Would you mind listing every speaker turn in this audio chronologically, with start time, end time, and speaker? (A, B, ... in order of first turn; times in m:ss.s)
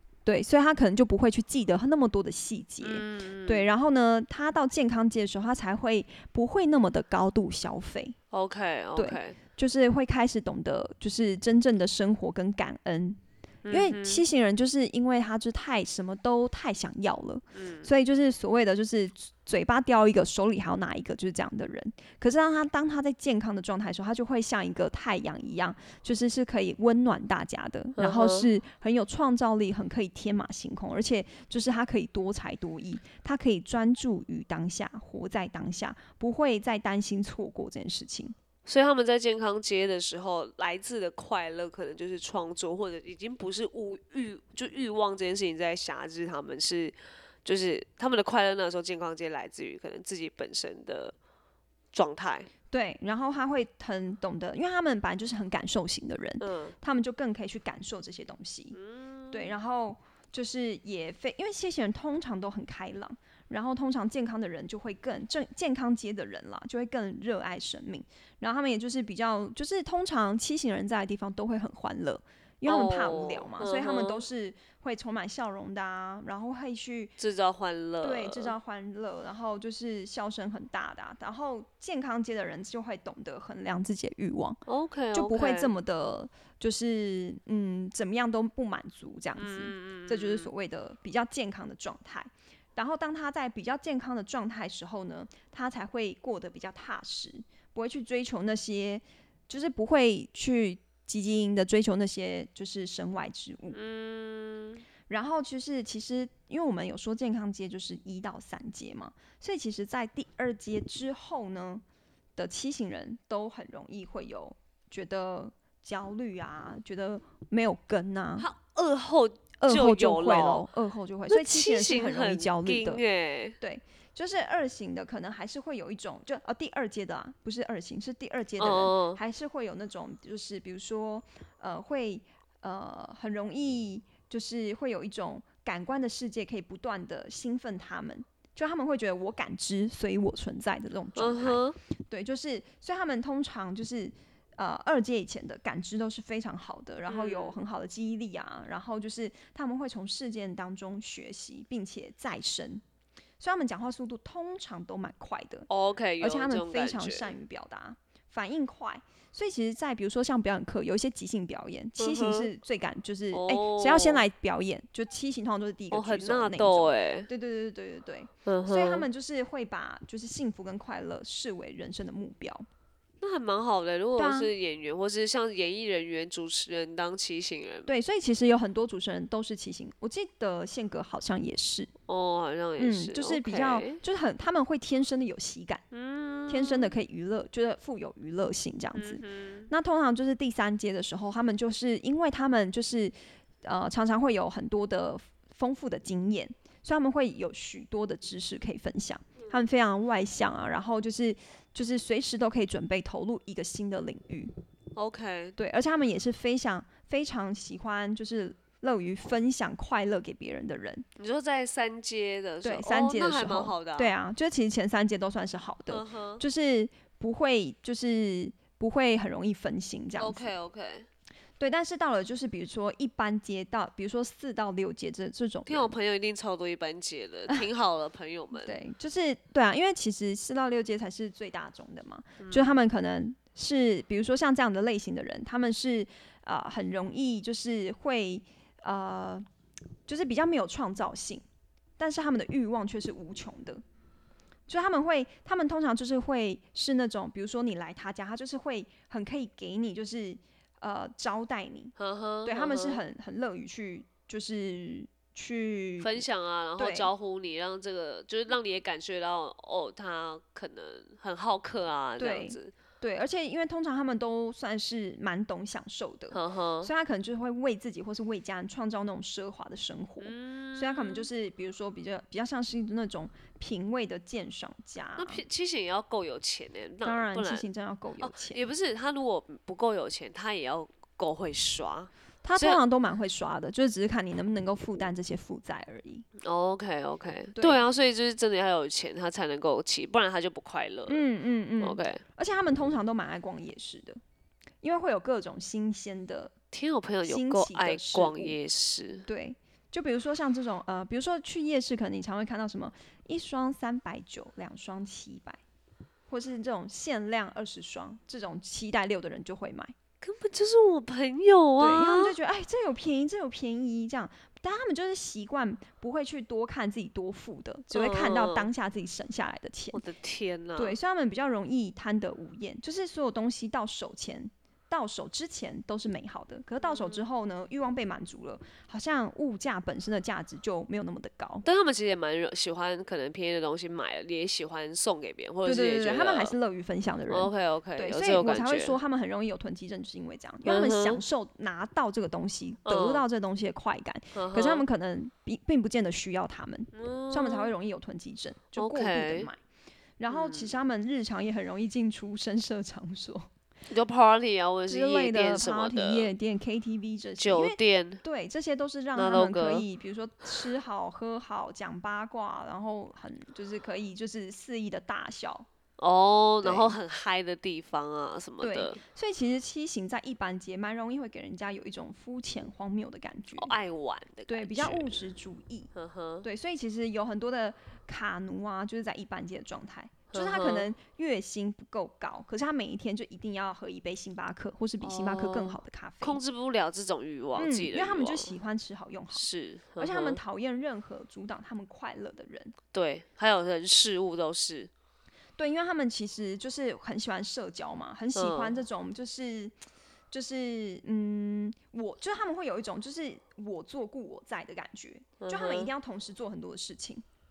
0:00.2-0:08.2 A
0:02.8-0:03.7 B
0:08.3-0:09.4 B
0:09.0-0:13.2 A
0:13.6-0:14.2 B
0:13.7-0:38.4 A
0:17.5-0:17.9 B
0:28.0-0:28.5 B
0:38.7-0:51.2 B
0:51.9-0:52.5 B
0:52.7-0:58.8 A
0:56.4-0:56.8 B
0:58.7-0:59.6 B
0:59.3-1:17.1 A
1:12.7-1:14.2 B
1:17.2-1:18.6 B
1:18.0-1:24.6 A
1:24.7-1:25.7 B
1:25.1-1:43.8 A
1:29.4-1:30.5 B
1:43.7-1:44.8 B
1:45.1-1:51.8 A
1:52.4-1:58.5 A
1:58.4-2:00.7 B
1:59.6-2:03.0 A
2:01.3-2:03.6 B
2:03.6-2:32.8 A
2:08.6-2:09.2 B
2:21.2-2:21.8 B
2:27.1-2:27.6 B
2:33.4-2:35.7 A
2:35.7-2:37.3 B
2:36.2-2:52.7 A
2:42.0-2:42.5 B
2:43.3-2:44.2 B
2:45.9-2:47.3 B
2:48.4-2:49.1 B
2:53.2-2:57.9 B
2:54.2-2:54.5 A
2:57.9-3:01.9 A
3:02.1-3:04.0 B
3:02.8-3:05.8 A
3:05.9-3:07.0 B
3:06.5-3:24.5 A
3:09.0-3:09.7 B
3:25.0-3:25.6 B
3:25.6-3:31.1 A
3:31.2-3:34.1 B
3:32.6-3:40.5 A
3:35.9-3:36.4 B
3:40.2-3:41.1 B
3:41.6-3:46.0 A
3:45.7-3:48.8 B
3:48.5-3:59.4 A
3:52.4-3:52.8 B
4:00.1-4:01.4 A
4:02.0-4:03.8 A
4:04.7-4:11.9 A
4:12.0-4:13.0 B
4:12.5-4:16.2 A
4:16.0-4:22.7 B
4:16.8-4:17.1 A
4:22.2-4:35.4 A
4:26.3-4:26.9 B
4:30.2-4:31.3 B
4:35.2-4:37.7 B
4:37.0-4:38.6 A
4:38.2-4:42.8 B
4:42.4-4:46.3 A
4:46.4-4:51.2 B
4:47.6-4:47.8 A
4:51.1-4:54.2 A
4:51.8-4:52.2 B
4:54.8-4:56.5 A
4:56.7-4:59.3 B
4:57.2-4:58.6 A
4:59.3-5:05.6 A
5:06.3-5:09.9 A
5:10.2-5:12.4 B
5:11.8-5:20.0 A
5:17.9-5:18.7 B
5:19.9-5:21.0 B
5:20.8-5:31.6 A
5:26.8-5:27.2 B
5:31.6-5:36.6 B
5:35.6-5:49.6 A
5:37.3-5:39.0 B
5:40.6-5:41.2 B
5:42.8-5:43.2 B
5:44.3-5:44.9 B
5:46.9-5:47.7 B
5:48.8-5:49.5 B
5:50.2-5:53.5 A
5:50.3-5:50.8 B
5:53.9-5:56.3 B
5:54.9-6:05.7 A
5:57.4-5:58.2 B
5:59.2-5:59.8 B
6:06.0-6:09.0 B
6:06.6-6:07.0 A
6:08.6-6:13.7 A
6:13.6-6:15.2 B
6:14.5-6:15.9 A
6:16.0-6:16.5 B
6:16.4-6:26.4 A
6:20.3-6:20.9 B
6:25.0-6:28.5 B
6:27.6-6:29.5 A
6:29.3-6:30.4 B
6:30.0-6:32.8 A
6:32.9-6:34.9 B
6:35.6-6:39.7 A
6:38.4-6:38.8 B
6:40.3-6:47.2 A
6:45.4-6:45.9 B